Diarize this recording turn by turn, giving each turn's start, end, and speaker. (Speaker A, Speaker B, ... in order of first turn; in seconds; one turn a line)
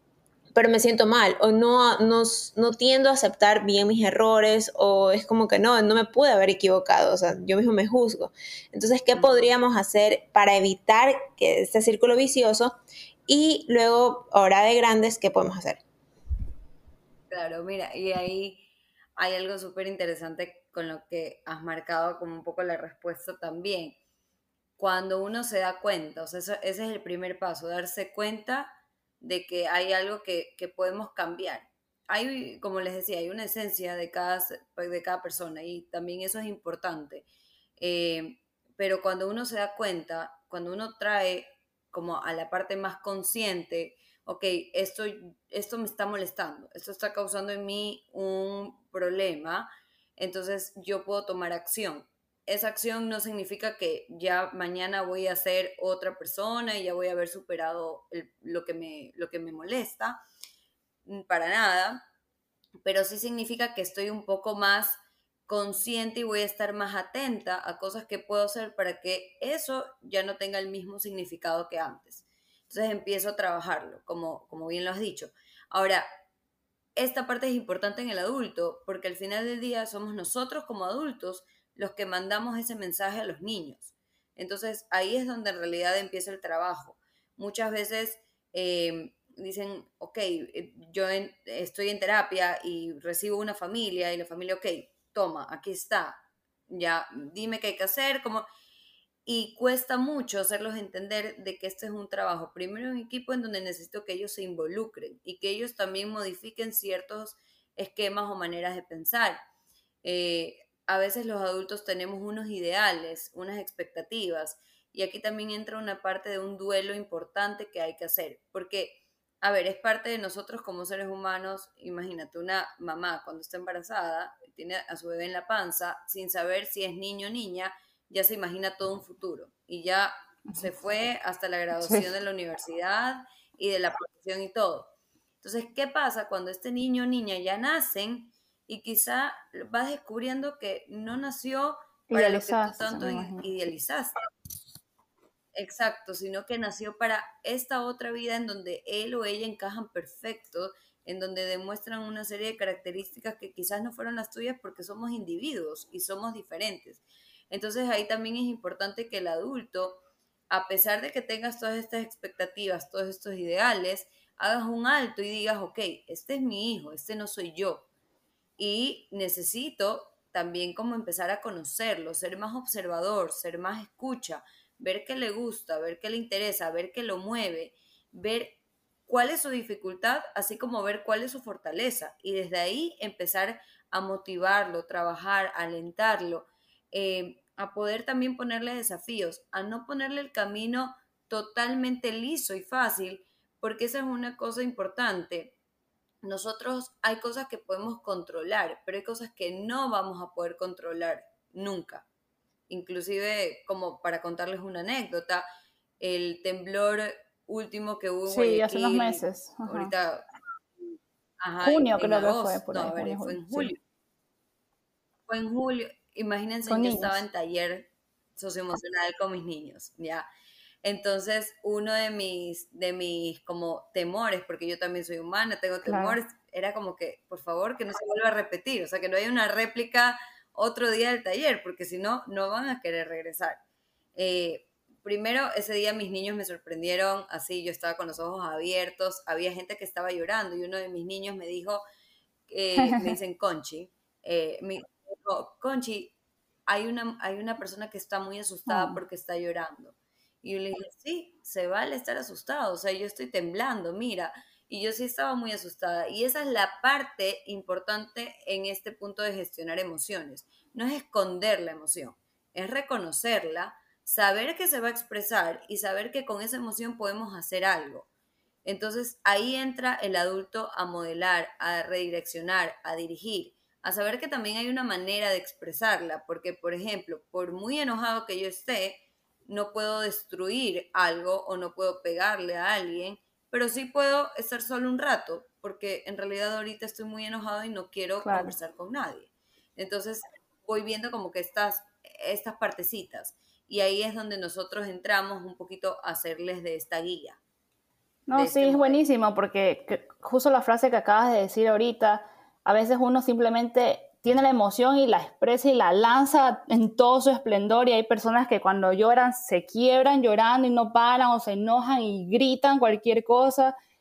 Speaker A: 0.5-12.8
Speaker B: 9.2-9.4
Speaker A: 13.3-15.8
Speaker B: 17.3-18.6
Speaker B: 19.2-24.0
Speaker B: 24.8-37.2
Speaker B: 37.8-60.2
Speaker B: 61.0-62.0
Speaker B: 62.8-76.1
Speaker B: 77.0-98.5
Speaker B: 99.2-109.4
Speaker B: 110.0-144.2
Speaker C: 131.8-132.1
Speaker C: 142.1-143.4
Speaker B: 145.5-160.0
Speaker B: 160.5-167.9
Speaker B: 168.6-178.6
Speaker B: 179.1-195.5
Speaker B: 196.2-202.0
Speaker B: 202.7-205.4
Speaker B: 206.0-210.2
Speaker C: 208.3-209.9
Speaker B: 211.4-213.8
Speaker C: 211.6-213.7
Speaker B: 215.3-220.2
Speaker C: 216.7-217.2
Speaker B: 220.8-233.6
Speaker C: 225.8-226.2
Speaker B: 234.1-241.8
Speaker B: 242.5-246.1
Speaker C: 242.8-243.1
Speaker B: 246.7-268.1
Speaker C: 248.7-249.0
Speaker B: 268.6-297.4
Speaker C: 288.2-288.5
Speaker C: 298.3-313.7
Speaker B: 298.3-299.0